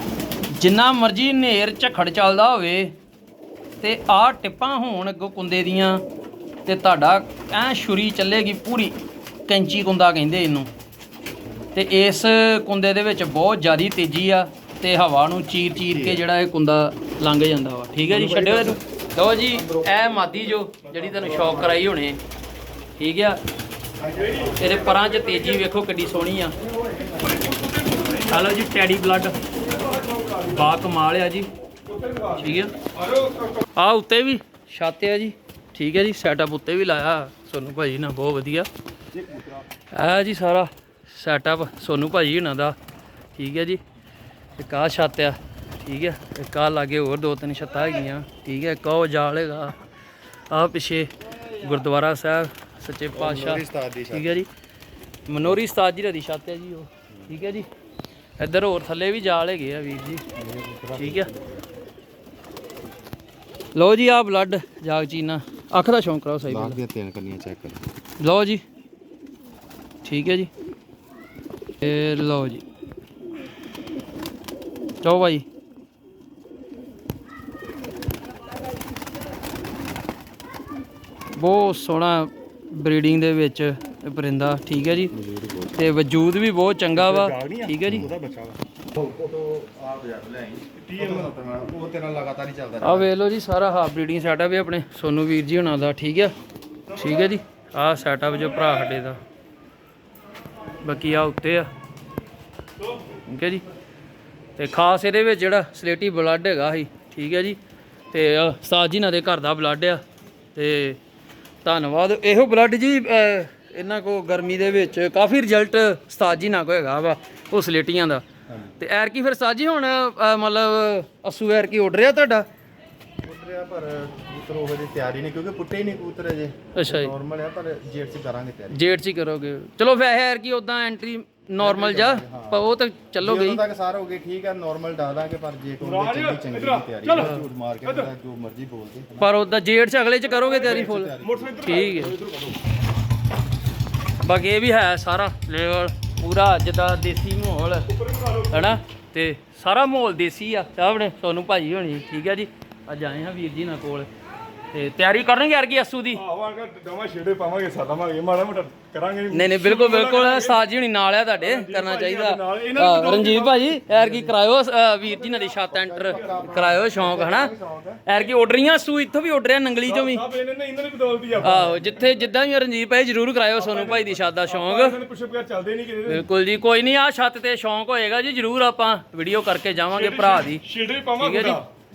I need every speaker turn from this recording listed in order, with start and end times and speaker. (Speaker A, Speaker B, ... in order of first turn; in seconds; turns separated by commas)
Speaker A: 0.5-2.9, Speaker A: 3.8-6.0, Speaker A: 6.6-10.7, Speaker A: 11.7-22.2, Speaker B: 15.8-16.2, Speaker C: 18.1-18.8, Speaker C: 20.9-21.8, Speaker A: 23.0-23.4, Speaker C: 24.1-25.7, Speaker B: 24.1-24.4, Speaker A: 24.6-26.5, Speaker C: 27.0-28.6, Speaker A: 28.3-29.4, Speaker C: 29.6-30.7, Speaker A: 30.5-31.5, Speaker C: 31.9-33.6, Speaker A: 32.3-32.7, Speaker A: 33.7-38.7, Speaker C: 39.1-39.7, Speaker A: 39.9-42.8, Speaker A: 43.3-43.8, Speaker A: 44.5-49.7, Speaker A: 50.5-54.5, Speaker B: 53.1-54.4, Speaker A: 55.3-57.7, Speaker B: 57.1-57.3, Speaker A: 58.4-60.2, Speaker B: 60.4-61.7, Speaker A: 60.9-61.3, Speaker A: 63.7-66.8, Speaker B: 66.4-67.8, Speaker A: 68.2-68.6, Speaker A: 70.0-70.5, Speaker A: 71.8-72.6, Speaker A: 75.0-75.4, Speaker A: 81.3-85.1, Speaker B: 84.8-85.9, Speaker A: 85.8-88.1, Speaker C: 86.9-88.6, Speaker B: 87.8-88.1, Speaker B: 88.9-93.1, Speaker C: 90.8-91.3, Speaker A: 92.8-96.3, Speaker A: 96.9-99.2, Speaker A: 100.8-101.7, Speaker A: 103.2-103.6, Speaker A: 104.6-107.6, Speaker A: 108.1-110.0, Speaker A: 110.5-111.0, Speaker A: 111.6-118.2, Speaker B: 118.5-118.7, Speaker A: 118.8-122.5, Speaker B: 123.2-128.8, Speaker A: 126.7-127.1, Speaker A: 128.7-133.6, Speaker B: 131.6-132.6, Speaker B: 133.2-139.3, Speaker C: 135.8-138.1, Speaker A: 139.2-142.2, Speaker C: 140.4-142.6, Speaker B: 140.5-141.8, Speaker A: 144.2-147.9, Speaker C: 147.9-148.8, Speaker A: 148.5-154.1, Speaker A: 154.7-156.2, Speaker C: 156.1-160.6, Speaker A: 159.3-167.5, Speaker C: 161.4-163.8, Speaker B: 163.9-164.3, Speaker B: 165.2-168.0, Speaker C: 166.0-166.6, Speaker A: 168.1-170.2, Speaker C: 169.8-172.1, Speaker A: 171.4-175.0, Speaker C: 173.5-176.2, Speaker A: 176.1-180.6, Speaker C: 179.9-181.7, Speaker A: 181.2-181.6